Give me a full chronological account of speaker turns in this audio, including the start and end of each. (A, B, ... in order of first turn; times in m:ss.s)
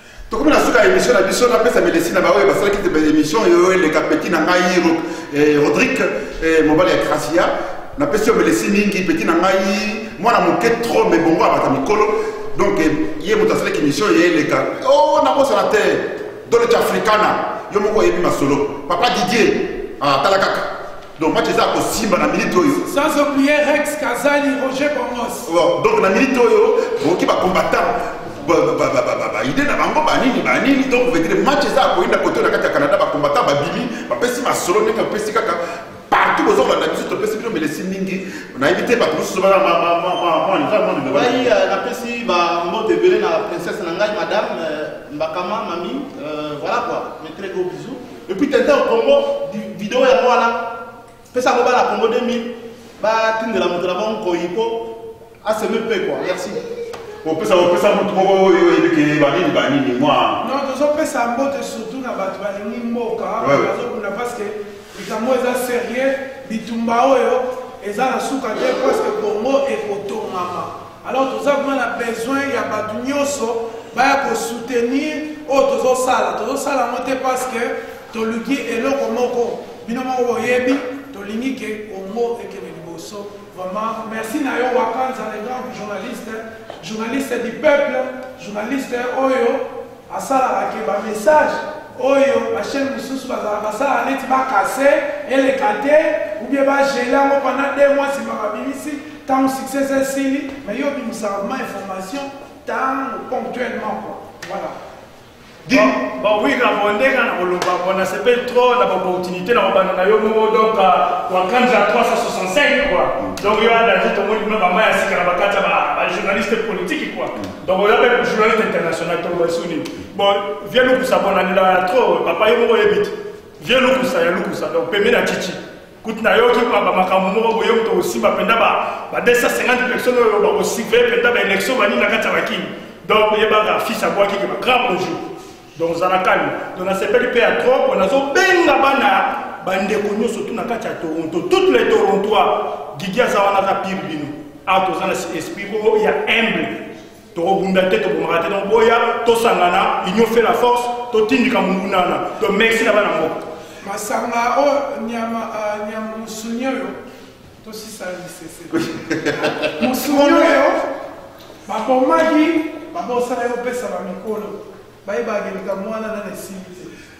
0:00.3-0:22.9 A
0:22.8-0:25.5 B
0:25.4-0:41.5 A
0:41.1-0:50.7 C
0:51.3-0:54.9 C
0:55.4-0:56.6 C
0:57.2-1:00.4 A
1:00.4-1:44.8 B
1:03.4-1:03.7 A
1:45.7-2:15.2 D
2:15.8-2:26.8 D
2:27.3-2:33.4 D
2:33.8-2:37.0 B
2:37.6-2:40.8 B
2:38.9-2:40.6 A
2:41.7-2:46.9 B